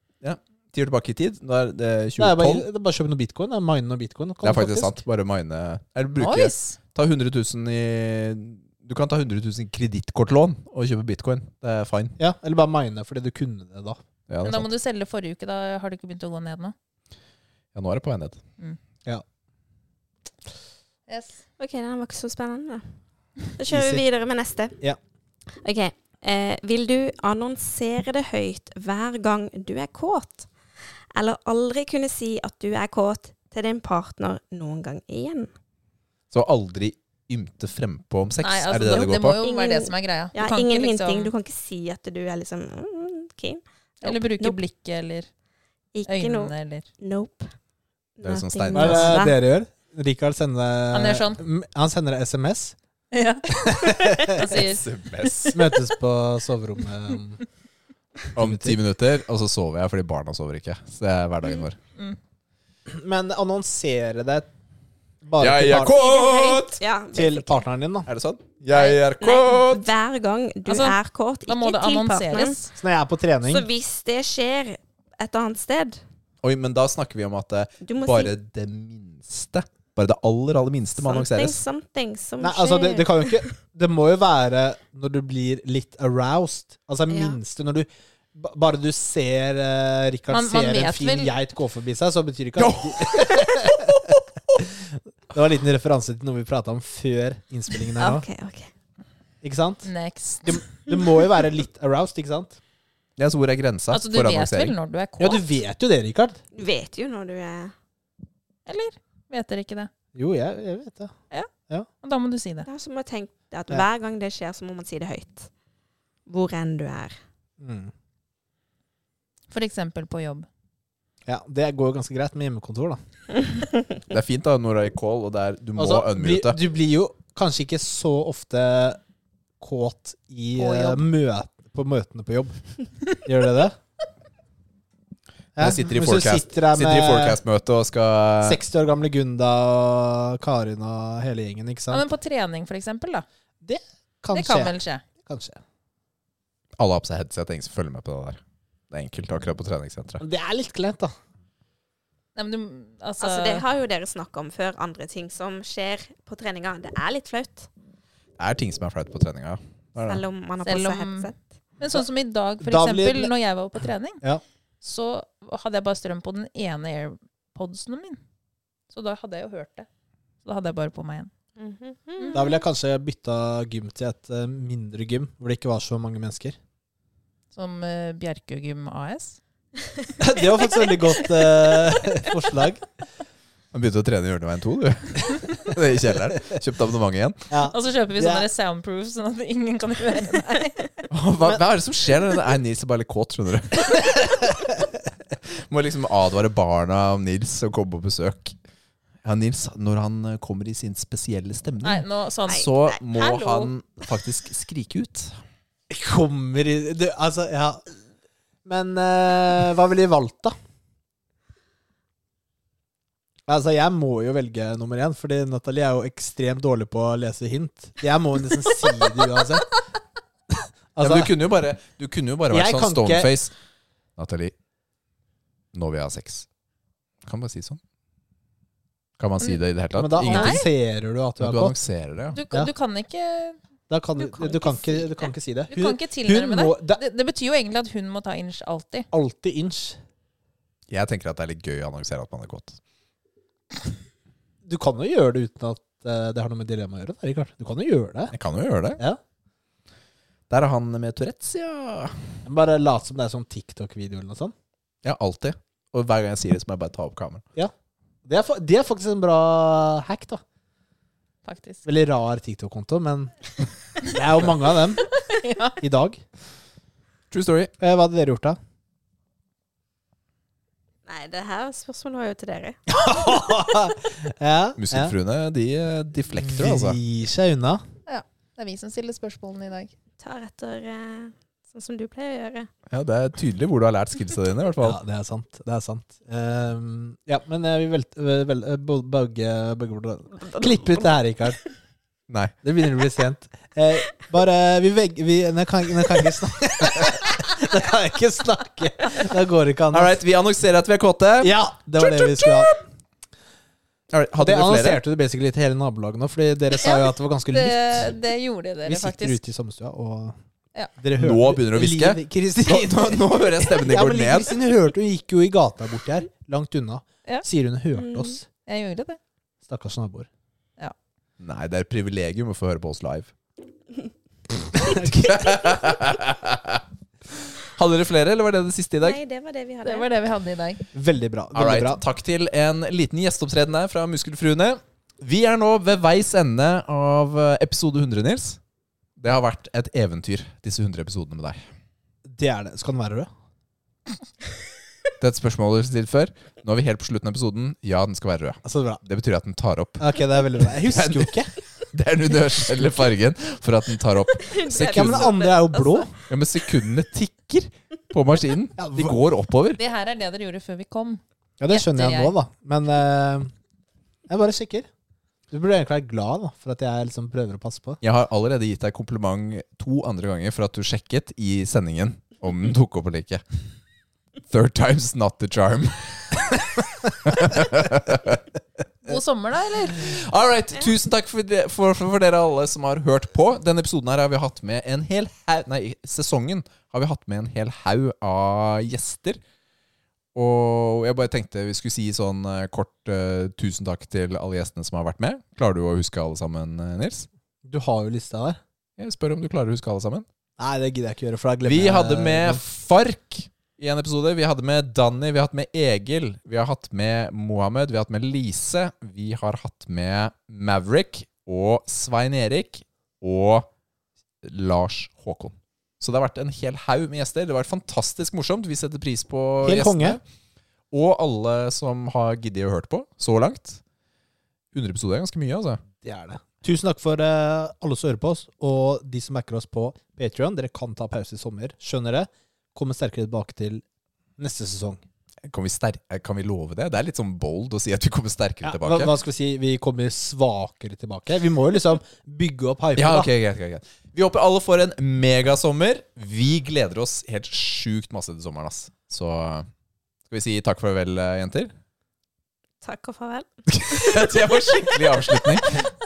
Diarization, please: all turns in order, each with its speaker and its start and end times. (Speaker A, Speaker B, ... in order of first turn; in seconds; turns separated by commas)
Speaker A: 0.2-2.6, Speaker B: 2.2-5.0, Speaker A: 4.4-12.2, Speaker C: 6.2-6.8, Speaker B: 12.2-14.0, Speaker A: 14.3-14.7, Speaker C: 14.4-16.7, Speaker A: 17.7-18.4, Speaker C: 21.1-21.4, Speaker D: 21.6-22.9, Speaker D: 23.5-24.8, Speaker B: 23.7-24.0, Speaker D: 25.6-30.5, Speaker D: 31.1-35.5, Speaker A: 36.3-39.4, Speaker C: 38.4-41.3, Speaker D: 38.8-44.6, Speaker C: 44.0-45.3, Speaker D: 45.9-47.5, Speaker C: 46.1-46.9, Speaker D: 48.2-49.4, Speaker A: 48.2-49.3, Speaker B: 48.7-52.8, Speaker C: 50.9-51.4, Speaker C: 53.1-55.6, Speaker B: 53.6-54.4, Speaker A: 54.6-55.6, Speaker B: 55.5-57.5, Speaker B: 58.4-58.8, Speaker A: 58.4-61.8, Speaker B: 62.9-64.5, Speaker B: 65.2-66.0, Speaker A: 65.4-66.8, Speaker D: 65.9-67.6, Speaker B: 67.1-68.1, Speaker A: 68.1-69.9, Speaker D: 68.7-72.6, Speaker C: 70.7-72.7, Speaker B: 72.8-73.7, Speaker D: 73.5-76.0, Speaker A: 76.4-81.6, Speaker D: 77.8-78.3, Speaker D: 81.0-83.5, Speaker B: 82.4-93.9, Speaker D: 87.1-87.4, Speaker C: 90.3-91.3, Speaker A: 92.6-94.2, Speaker B: 94.6-98.2, Speaker D: 98.0-98.7, Speaker B: 99.4-99.9, Speaker C: 99.8-100.6, Speaker B: 100.4-102.6, Speaker A: 103.2-104.8, Speaker C: 103.9-105.4, Speaker B: 105.2-106.4, Speaker D: 106.5-107.7, Speaker C: 108.7-109.9, Speaker B: 110.2-111.1, Speaker C: 112.0-112.7, Speaker D: 112.7-115.5, Speaker D: 116.3-117.2, Speaker B: 117.6-117.9, Speaker C: 119.5-120.5, Speaker B: 121.3-123.0, Speaker A: 124.1-126.6, Speaker B: 125.8-129.0, Speaker B: 129.6-132.6, Speaker C: 130.6-131.0, Speaker B: 133.2-133.8, Speaker B: 135.6-137.4, Speaker A: 135.6-138.6, Speaker B: 138.4-142.0, Speaker C: 141.9-143.3, Speaker B: 143.6-145.6, Speaker C: 144.3-145.0, Speaker A: 146.8-150.2, Speaker B: 150.2-151.1, Speaker C: 152.4-153.6, Speaker D: 153.2-157.7, Speaker A: 158.4-160.2, Speaker D: 160.0-161.4, Speaker C: 160.7-164.2, Speaker B: 162.6-163.3, Speaker C: 164.8-168.2, Speaker C: 168.9-169.9, Speaker C: 170.4-171.3, Speaker D: 171.6-172.5, Speaker B: 172.3-176.6, Speaker C: 177.5-179.4, Speaker B: 180.2-182.8, Speaker A: 183.7-187.5, Speaker B: 187.5-188.5, Speaker C: 187.7-190.8, Speaker A: 191.1-194.2, Speaker A: 195.7-198.6, Speaker A: 199.2-205.4, Speaker C: 201.8-203.7, Speaker D: 202.5-203.0, Speaker B: 205.9-207.8, Speaker B: 208.7-210.6, Speaker B: 213.5-219.7, Speaker B: 220.5-221.3, Speaker A: 221.0-223.5, Speaker B: 222.5-223.3, Speaker A: 224.2-224.5, Speaker A: 225.7-226.5, Speaker A: 227.2-227.8, Speaker A: 229.2-230.7, Speaker B: 230.0-231.8, Speaker C: 230.3-230.7, Speaker A: 231.4-232.4, Speaker C: 232.3-233.6, Speaker B: 233.9-237.0, Speaker D: 234.2-235.1, Speaker C: 235.7-239.1, Speaker B: 239.1-240.0, Speaker A: 240.9-242.8, Speaker B: 244.7-248.3, Speaker A: 248.3-249.0, Speaker A: 250.5-252.3, Speaker B: 252.5-254.5, Speaker A: 255.0-257.4, Speaker B: 258.2-260.4, Speaker C: 261.4-261.9, Speaker B: 261.9-263.3, Speaker B: 264.0-265.1, Speaker C: 265.3-265.8, Speaker B: 265.8-266.2, Speaker A: 267.3-267.7, Speaker B: 267.8-268.6, Speaker D: 271.1-272.8, Speaker B: 272.9-275.1, Speaker A: 274.8-277.0, Speaker B: 276.4-277.8, Speaker C: 278.1-279.9, Speaker D: 280.2-282.7, Speaker A: 282.9-285.0, Speaker B: 284.8-291.6, Speaker A: 292.3-292.6, Speaker B: 292.6-300.2, Speaker A: 299.9-301.5, Speaker B: 301.4-302.7, Speaker A: 304.1-305.0, Speaker B: 304.4-308.1, Speaker C: 306.8-309.4, Speaker B: 308.9-310.4, Speaker B: 311.0-318.4, Speaker A: 311.2-314.6, Speaker C: 318.7-319.2, Speaker B: 319.7-320.3, Speaker A: 321.4-323.3, Speaker A: 324.7-329.2, Speaker B: 324.8-325.4, Speaker D: 329.0-330.1, Speaker C: 329.8-330.8, Speaker B: 330.9-332.0, Speaker A: 331.6-338.6, Speaker A: 339.2-341.6, Speaker B: 342.3-343.3, Speaker A: 345.2-350.1, Speaker B: 348.6-349.0, Speaker B: 350.0-351.5, Speaker A: 350.6-351.3, Speaker A: 351.9-355.4, Speaker D: 354.5-356.1, Speaker B: 354.9-356.1, Speaker A: 356.3-359.8, Speaker B: 358.8-359.2, Speaker C: 359.8-362.3, Speaker B: 361.6-363.5, Speaker B: 364.3-364.9, Speaker B: 365.5-368.0, Speaker A: 368.0-373.4, Speaker A: 374.5-378.4, Speaker C: 379.1-380.1, Speaker A: 379.9-389.4, Speaker A: 390.4-397.3, Speaker B: 397.6-398.6, Speaker A: 399.0-400.3, Speaker B: 400.6-402.6, Speaker A: 401.6-413.7, Speaker A: 414.4-420.2, Speaker B: 419.6-420.2, Speaker A: 420.9-423.8, Speaker A: 424.7-425.8, Speaker B: 426.0-433.8, Speaker B: 434.4-435.0, Speaker A: 435.4-439.1, Speaker B: 438.6-443.3, Speaker A: 443.0-449.7, Speaker A: 450.3-451.7, Speaker D: 452.8-455.6, Speaker A: 453.7-455.8